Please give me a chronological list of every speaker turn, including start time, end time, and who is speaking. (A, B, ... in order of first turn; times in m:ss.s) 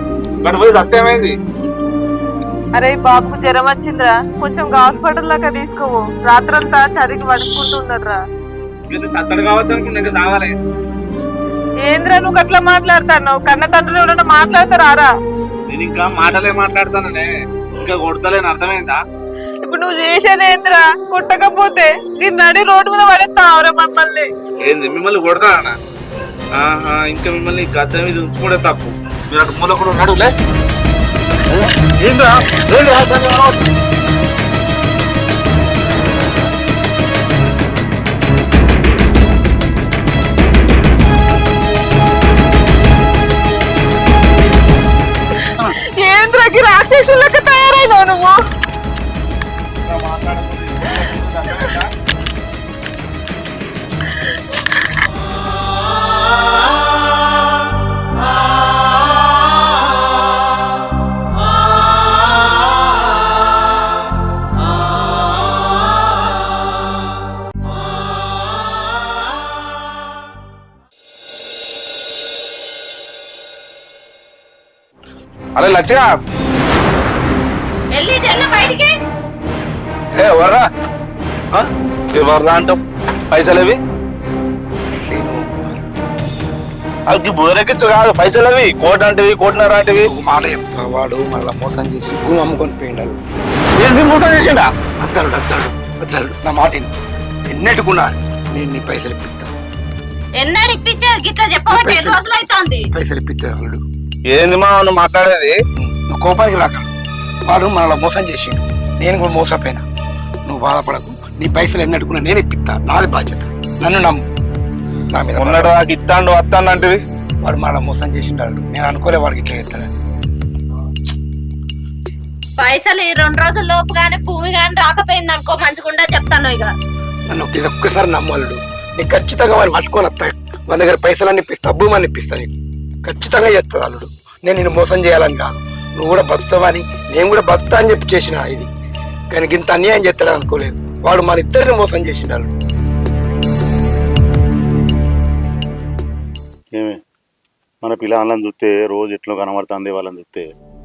0:00.4-0:01.4 A
0:02.8-0:08.2 B
0:08.9-0:10.6 A
0:11.9-0:15.1 B
0:15.7-0:19.0 A
0:19.6-0:24.3 B
0:24.7-0:25.8 A
0:26.6-0:30.3 A
0:31.5-0:33.4 C
0:32.5-0:33.5 A
0:45.4-0:48.4 B
0:45.4-0:45.8 C
0:49.8-0:51.9 A
1:15.6-1:16.1 A
1:17.9-1:19.0 D
1:20.2-1:20.7 E
1:22.2-1:22.8 A
1:23.3-1:23.8 A
1:24.9-1:25.9 E
1:27.1-1:30.1 A
1:30.0-1:33.2 E
1:33.8-1:34.7 A
1:35.0-1:36.9 E
1:37.5-1:39.5 E
1:40.4-1:42.9 D
1:41.7-1:42.2 E
1:42.9-1:43.8 E
1:44.3-1:45.6 A
1:45.8-1:46.9 E
1:47.5-1:49.8 E
1:50.5-1:54.2 E
1:55.1-1:55.7 E
1:55.4-1:57.0 A
1:57.4-1:59.9 E
2:02.6-2:06.7 D
2:07.3-2:12.5 E
2:13.0-2:18.7 E
2:19.3-2:22.6 E
2:27.8-2:30.5 C